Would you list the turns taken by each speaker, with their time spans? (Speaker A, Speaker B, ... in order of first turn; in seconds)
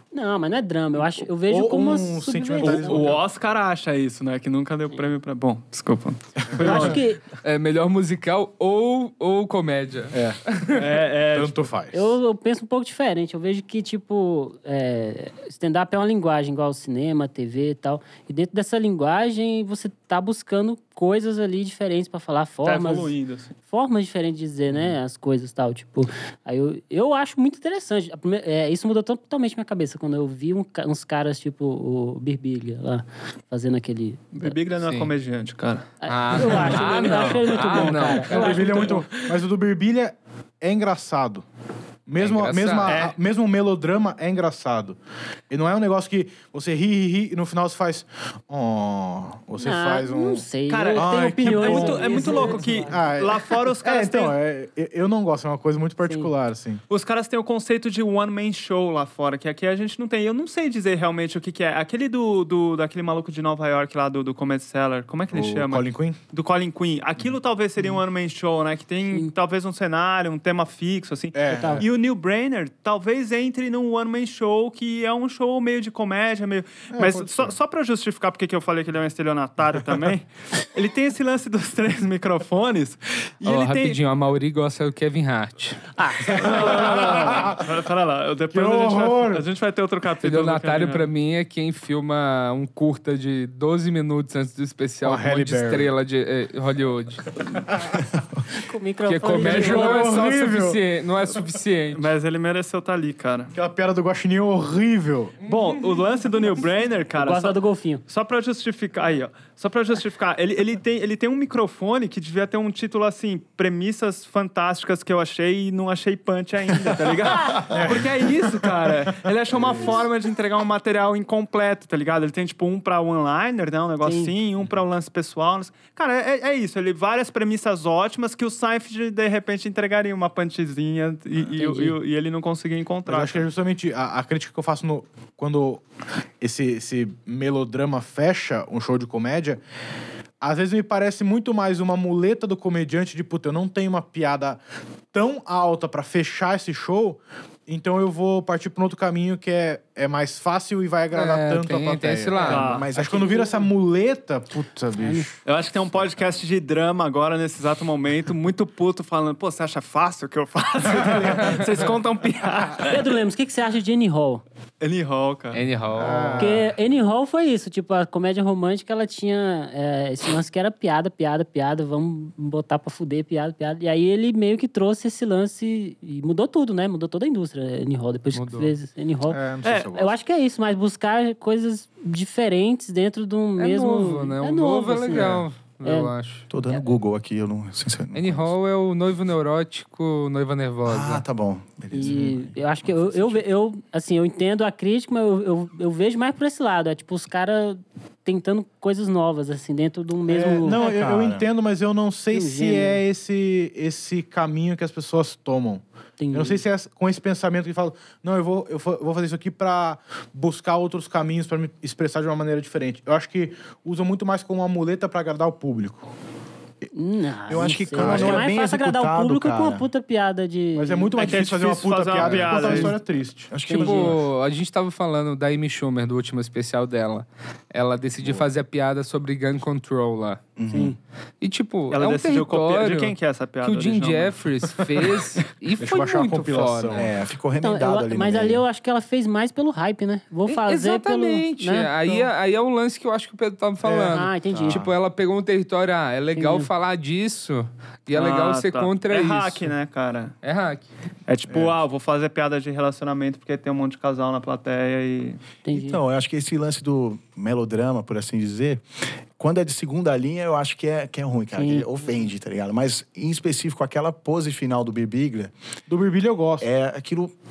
Speaker A: 0.1-3.1, 6.6-7.2, 11.9-34.6, 36.0-39.1, 49.6-53.1, 56.0-56.3, 71.5-71.8, 86.0-86.4, 98.6-100.1, 107.2-108.0, 124.0-124.3, 131.6-132.0, 154.9-155.3, 162.8-164.4, 166.4-179.4, 179.9-185.3, 185.8-186.1, 191.9-200.9, 202.3-203.0, 206.2-206.6, 216.9-221.1, 223.6-224.2, 230.7-231.0, 237.6-241.9, 244.1-244.8, 246.3-246.7, 255.6-256.0, 261.5-262.0
Speaker B: 1.4-3.3, 6.4-7.0, 10.1-10.4, 11.3-12.2, 38.3-41.4, 42.0-45.0, 45.5-56.8, 65.3-66.2, 71.3-71.8, 76.9-77.5, 86.3-87.6, 88.5-89.5, 95.0-95.9, 97.7-97.9, 99.3-100.8, 103.5-105.3, 117.7-118.1, 119.1-120.1, 133.1-135.8, 136.4-139.6, 140.4-144.6, 145.1-155.4, 161.0-161.6, 165.9-166.7, 179.2-180.1, 185.1-185.4, 200.3-216.1, 217.5-218.5, 220.7-223.5, 234.8-235.0, 235.8-237.2, 243.8-244.7, 251.5-251.8, 265.9-266.7
Speaker C: 2.6-7.0, 10.7-11.6, 22.6-23.5, 34.3-39.4, 42.9-43.1, 50.7-54.4, 56.9-84.0, 86.4-91.1, 101.3-103.5, 105.4-107.5, 108.1-133.5, 152.4-152.9, 155.4-163.0, 164.8-165.6, 179.6-179.9, 221.2-223.0, 231.9-234.5, 248.1-250.3, 251.3-255.4
Speaker D: 7.4-11.0, 34.8-35.1, 36.1-38.8, 42.2-43.0, 83.4-87.3, 90.2-97.6, 99.0-102.1, 105.4-106.0, 151.1-152.8, 165.5-166.4, 178.3-178.7, 183.6-186.4, 188.1-191.2, 223.7-230.4, 231.4-237.1, 240.5-249.7, 250.4-250.8
Speaker E: 152.4-153.5, 186.5-188.5, 190.8-193.4, 200.8-201.5, 217.5-219.8, 222.2-222.5, 223.5-224.2, 230.6-230.9, 236.9-238.6, 244.6-244.9, 255.7-258.8, 259.4-265.5, 266.6-267.3